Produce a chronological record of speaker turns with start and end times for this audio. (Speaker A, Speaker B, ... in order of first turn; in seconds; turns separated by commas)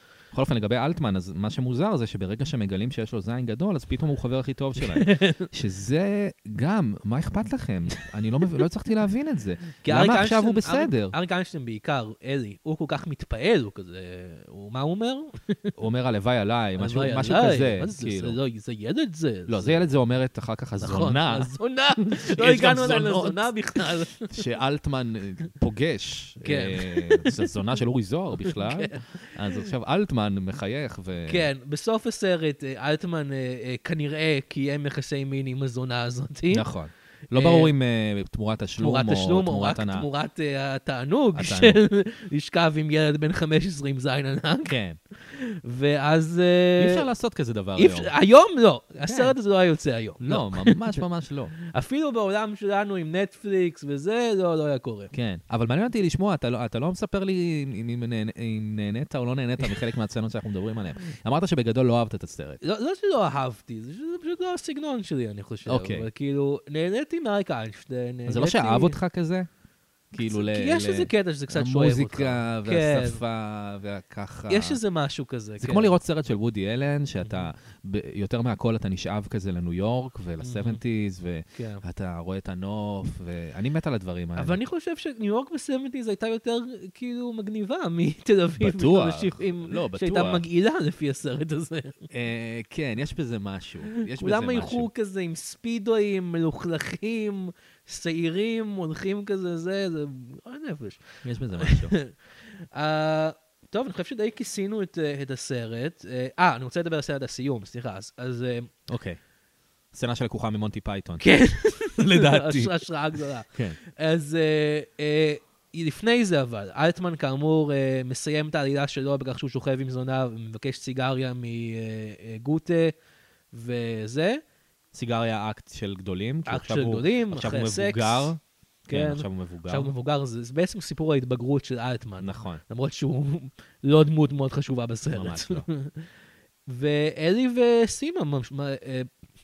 Speaker A: 0.3-11.1, Speaker B: 4.8-5.5, Speaker B: 9.8-15.7, Speaker A: 15.8-18.4, Speaker B: 16.8-19.8, Speaker A: 19.5-31.5, Speaker B: 20.8-24.4, Speaker B: 26.4-27.5, Speaker B: 28.4-29.7, Speaker B: 31.2-36.6, Speaker A: 36.5-40.1, Speaker B: 37.3-37.7, Speaker B: 38.8-47.1, Speaker A: 41.3-41.8, Speaker A: 44.6-45.0, Speaker A: 46.8-48.1, Speaker B: 47.8-51.0, Speaker A: 49.0-49.3, Speaker A: 50.2-51.5, Speaker B: 51.6-55.1, Speaker A: 55.1-62.6, Speaker B: 62.6-69.0, Speaker A: 65.7-66.1, Speaker A: 68.3-69.5, Speaker A: 70.1-74.8, Speaker B: 70.2-73.2, Speaker B: 74.5-76.0, Speaker A: 75.6-84.6, Speaker B: 77.2-77.5, Speaker B: 80.4-80.8, Speaker B: 81.5-81.8, Speaker B: 84.3-92.1, Speaker A: 88.6-90.4, Speaker A: 92.1-94.9, Speaker B: 93.9-108.7, Speaker A: 101.2-102.0, Speaker A: 108.9-109.2, Speaker A: 109.9-111.4, Speaker B: 111.2-122.9, Speaker A: 111.9-112.8, Speaker A: 113.5-113.8, Speaker B: 123.5-124.4, Speaker A: 124.9-129.9, Speaker B: 126.5-128.3, Speaker B: 128.9-136.1, Speaker A: 132.2-132.6, Speaker A: 135.1-135.7, Speaker B: 136.7-139.1